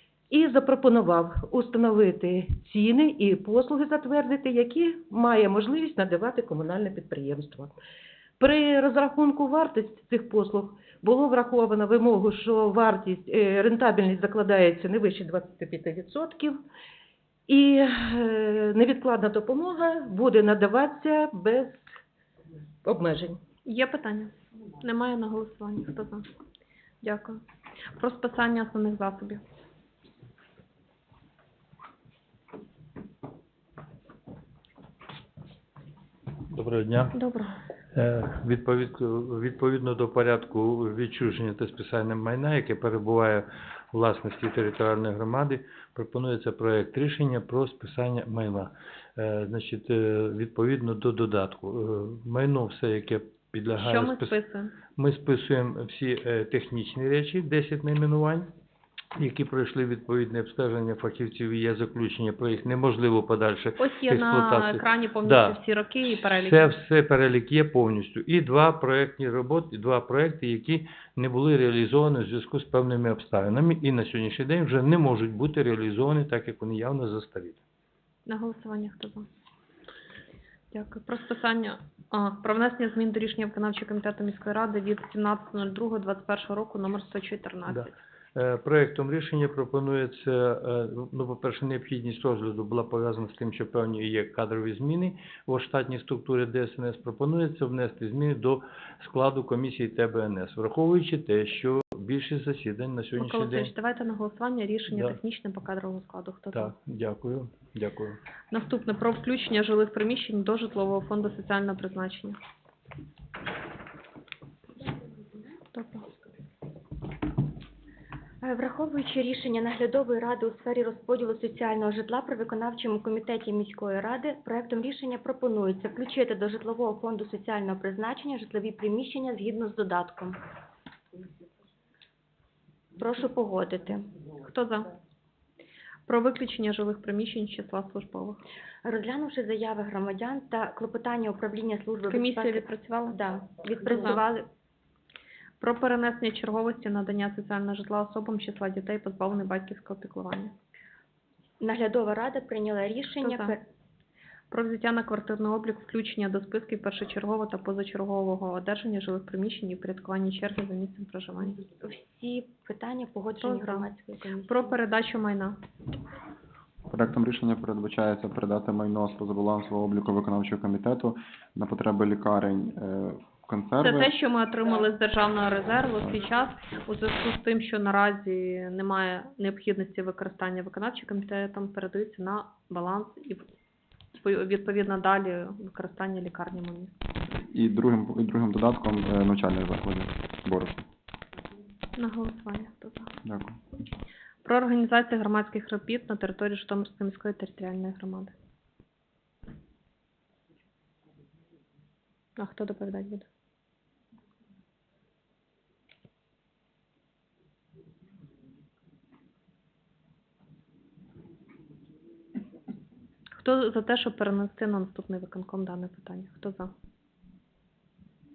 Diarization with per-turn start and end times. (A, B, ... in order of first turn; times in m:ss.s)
0:00.3-0:07.7 A
0:08.4-0:16.6 A
0:17.5-0:22.0 A
0:22.8-0:23.4 A
0:23.6-0:26.2 B
0:27.0-0:27.4 B
0:28.0-0:29.4 B
0:36.5-0:37.2 C
0:37.1-0:37.6 B
0:37.9-0:54.4 C
0:53.8-0:54.7 B
0:55.0-0:58.5 C
0:59.2-1:17.6 C
1:03.8-1:06.7 B
1:18.2-1:19.2 B
1:20.7-1:28.0 B
1:27.7-1:43.7 C
1:43.2-1:46.7 B
1:44.9-1:45.2 C
1:46.5-1:48.2 C
1:48.5-1:52.4 B
1:55.7-1:56.0 B
1:58.4-2:10.4 D
2:13.0-2:14.1 D
2:14.4-2:14.9 B
2:16.0-2:18.4 B
2:18.8-2:24.5 D
2:22.1-2:23.2 B
2:23.8-2:24.2 B
2:25.6-2:30.5 B
2:31.6-2:33.6 D
2:33.2-2:33.6 B
2:34.5-2:41.6 B
2:41.6-2:44.7 D
2:43.4-2:43.9 B
2:44.5-2:45.6 B
2:46.9-2:54.1 E
2:53.8-3:03.4 B
3:04.2-3:07.0 B
3:07.5-3:10.8 E
3:12.0-3:13.1 B
3:13.2-3:13.6 E
3:14.4-3:18.3 B
3:22.4-3:23.2 B
3:33.3-3:36.7 B